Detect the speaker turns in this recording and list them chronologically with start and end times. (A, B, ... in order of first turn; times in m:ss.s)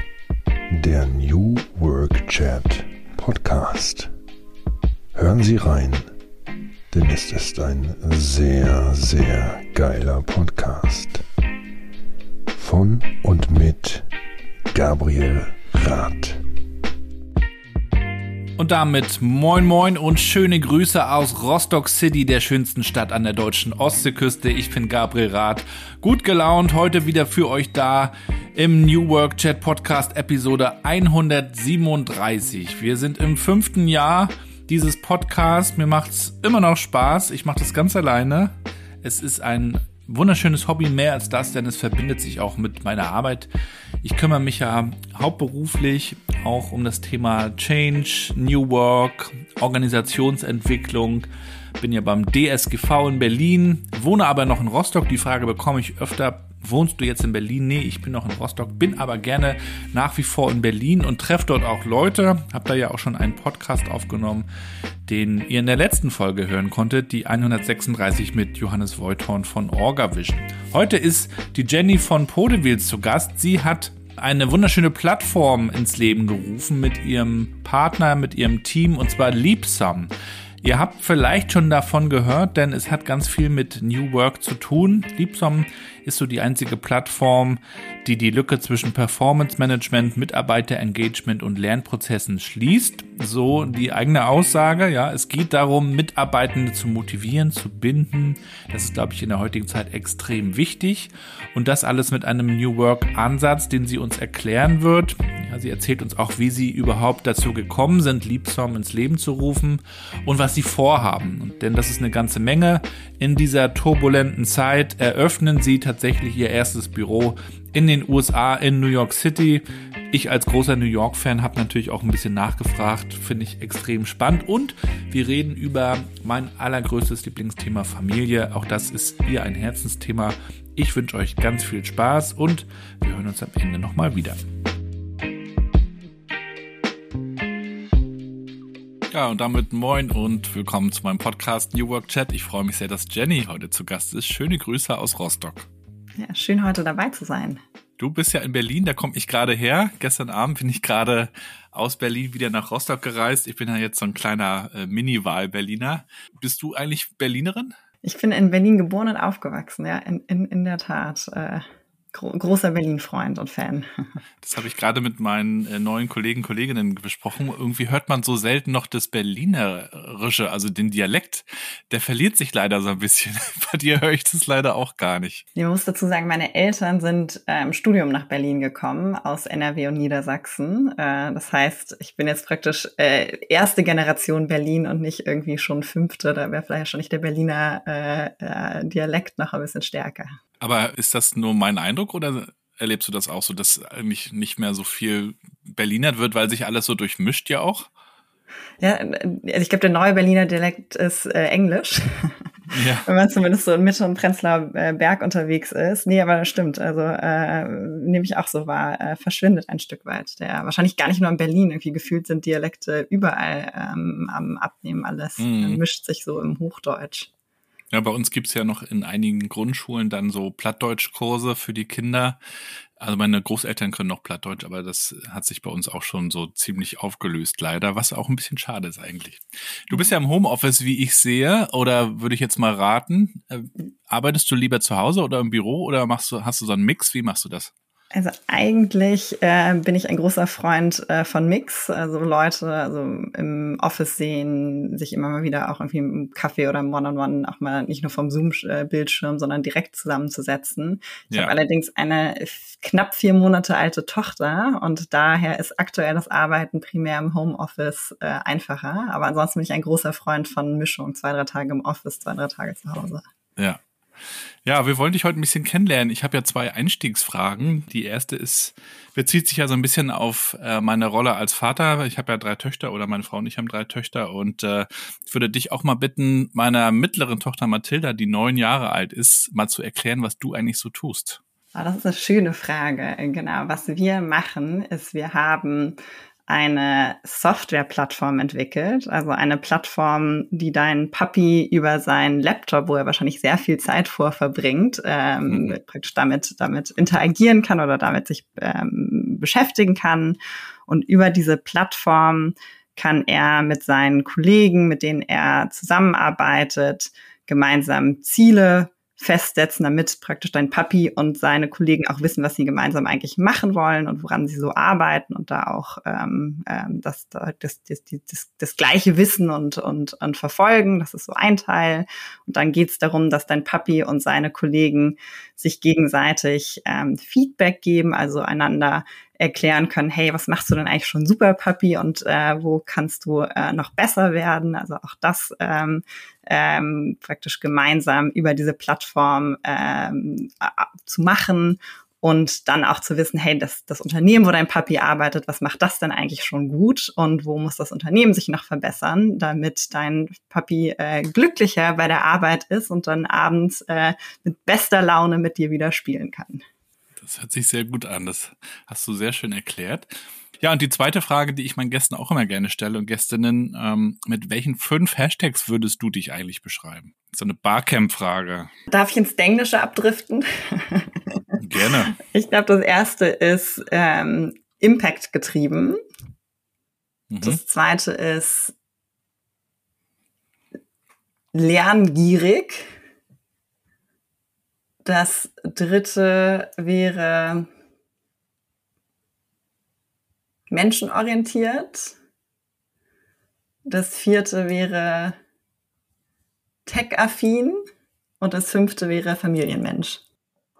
0:00.7-0:04.1 A
0:05.1-0:06.1 A
0:06.9-0:11.2 A
0:12.5-0:14.1 A
0:14.7-0:16.4 A
0:18.6-0:43.5 B
0:44.0-0:51.3 B
0:51.8-1:04.4 B
1:05.0-1:20.1 B
1:20.6-2:14.4 B
2:19.1-2:25.7 B
2:26.2-2:27.6 C
2:28.0-2:37.7 B
2:38.0-2:43.9 C
2:44.4-2:55.4 B
2:55.6-3:10.4 C
3:10.6-3:17.9 B
3:18.8-3:22.4 C
3:22.7-3:23.0 B
3:23.0-3:37.3 C
3:35.4-3:35.8 B
3:37.9-3:42.4 B
3:43.0-3:57.7 B
3:58.1-4:23.2 C
4:23.6-4:41.4 B
4:41.7-5:56.6 C
4:55.5-4:55.7 B
5:57.2-6:08.7 B
6:08.9-6:11.6 C
6:11.6-6:12.1 B
6:12.1-6:16.0 C
6:17.3-6:17.6 B
6:17.4-6:18.7 C
6:21.5-6:22.9 C
6:25.0-6:27.7 C
6:30.7-6:32.1 C
6:33.8-6:35.4 C
6:36.8-6:37.8 C
6:38.4-6:40.2 C